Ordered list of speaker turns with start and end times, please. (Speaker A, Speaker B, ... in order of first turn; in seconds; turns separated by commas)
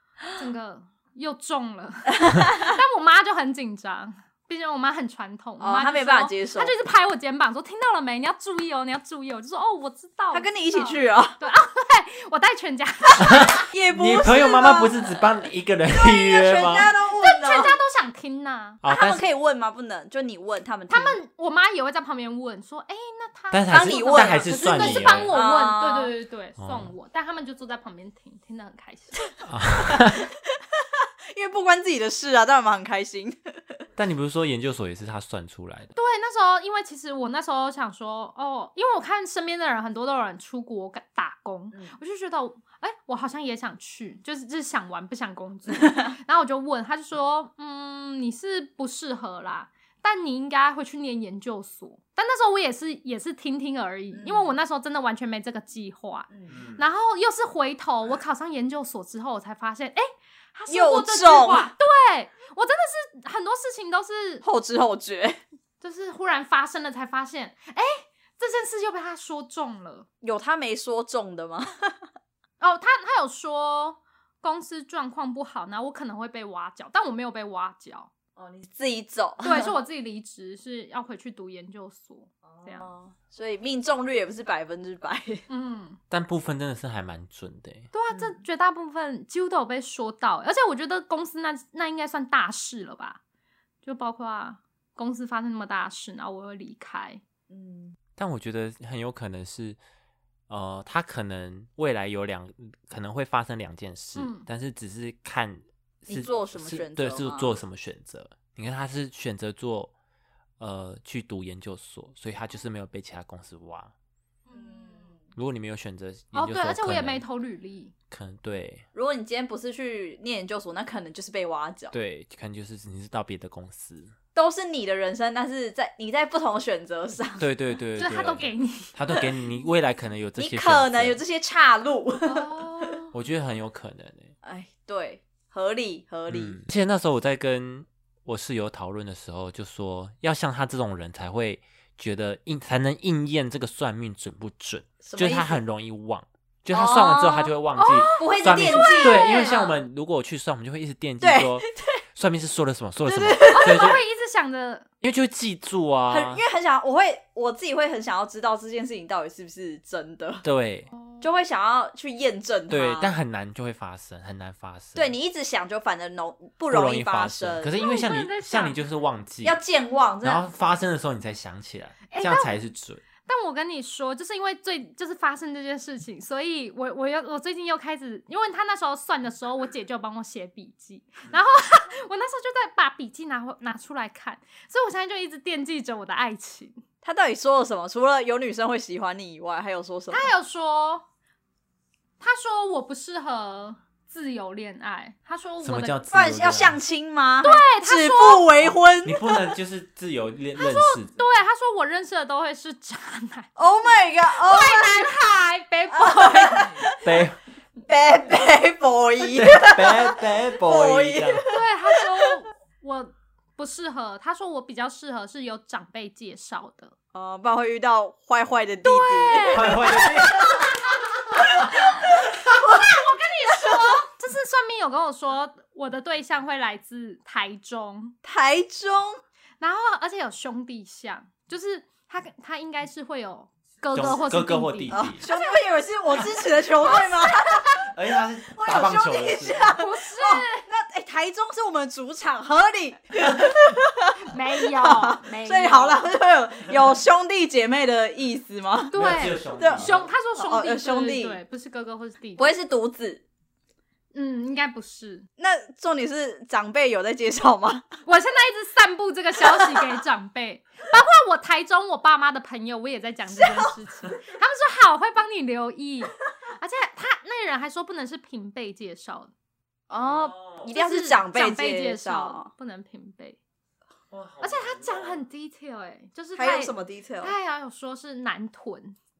Speaker A: 0.3-13.7, Speaker B: 2.2-2.7, Speaker B: 5.6-6.7, Speaker B: 10.3-11.4, Speaker C: 13.2-16.9, Speaker B: 13.7-15.3, Speaker B: 15.9-17.7, Speaker A: 17.1-18.8, Speaker C: 18.8-19.2, Speaker B: 18.9-21.2, Speaker A: 20.9-29.3, Speaker C: 23.5-25.4, Speaker B: 23.7-26.1, Speaker C: 26.6-26.9, Speaker C: 29.4-30.2, Speaker B: 29.9-30.2, Speaker B: 30.8-33.8, Speaker C: 34.0-35.9, Speaker A: 35.9-64.4, Speaker B: 54.1-54.5, Speaker C: 56.5-56.8, Speaker B: 60.7-61.7, Speaker B: 64.4-65.4, Speaker A: 65.8-70.1, Speaker B: 70.2-72.0, Speaker A: 72.6-78.1, Speaker B: 78.4-79.7, Speaker A: 79.4-82.9, Speaker B: 82.5-85.4, Speaker A: 85.5-86.0, Speaker C: 86.1-87.9, Speaker A: 87.9-93.2, Speaker B: 88.1-88.4, Speaker A: 93.8-97.2, Speaker B: 97.5-98.0, Speaker C: 98.2-99.8, Speaker C: 100.5-109.9, Speaker A: 104.2-104.5, Speaker B: 106.1-107.5, Speaker C: 110.6-113.9, Speaker A: 114.5-115.1, Speaker B: 114.5-115.2, Speaker C: 115.3-117.2, Speaker A: 116.3-117.9, Speaker C: 118.1-118.8, Speaker B: 118.9-121.9, Speaker C: 121.9-124.1, Speaker B: 124.3-127.5, Speaker C: 127.4-131.2, Speaker A: 128.0-128.9, Speaker B: 130.4-132.9, Speaker A: 132.2-133.1, Speaker C: 133.1-134.3, Speaker B: 134.4-136.6, Speaker C: 136.3-154.0, Speaker B: 145.0-145.6, Speaker B: 146.7-147.5, Speaker A: 147.8-149.6, Speaker B: 148.2-149.8, Speaker B: 151.2-152.0, Speaker B: 153.1-154.0, Speaker A: 153.4-154.9, Speaker C: 155.0-156.4, Speaker B: 156.1-160.4, Speaker C: 160.4-160.9, Speaker A: 160.9-161.2, Speaker B: 161.2-163.1, Speaker C: 162.7-165.1, Speaker B: 164.9-167.7, Speaker C: 166.7-169.6, Speaker A: 167.8-168.8, Speaker B: 169.4-170.4, Speaker C: 170.2-173.0, Speaker A: 172.1-172.5, Speaker A: 173.2-186.8, Speaker B: 187.0-190.3, Speaker A: 190.1-191.1, Speaker A: 192.2-196.0, Speaker C: 195.6-196.8, Speaker B: 196.1-199.4, Speaker A: 197.4-198.5, Speaker C: 199.0-201.2, Speaker A: 200.6-206.9, Speaker B: 203.6-205.1, Speaker B: 205.9-207.2, Speaker C: 207.0-207.4, Speaker B: 207.8-212.4, Speaker C: 209.3-211.4, Speaker A: 211.5-216.9, Speaker B: 217.1-220.8, Speaker A: 218.8-220.1, Speaker C: 219.5-220.7, Speaker B: 221.3-224.1, Speaker A: 221.3-228.2, Speaker B: 228.2-229.2, Speaker A: 229.6-235.0, Speaker C: 233.9-235.2, Speaker B: 234.9-237.8, Speaker A: 236.8-237.8, Speaker C: 237.9-239.7, Speaker B: 238.5-248.9, Speaker A: 239.8-240.6, Speaker A: 244.2-246.1, Speaker A: 248.9-252.5, Speaker C: 248.9-250.1, Speaker B: 249.5-251.4, Speaker B: 252.4-253.2, Speaker A: 254.1-255.3, Speaker B: 255.4-257.9, Speaker A: 258.0-269.3, Speaker B: 259.4-260.0, Speaker B: 263.3-263.7, Speaker B: 269.9-272.5, Speaker C: 269.9-270.7, Speaker A: 270.7-273.4, Speaker C: 274.1-275.2, Speaker A: 274.4-279.0, Speaker B: 276.3-277.3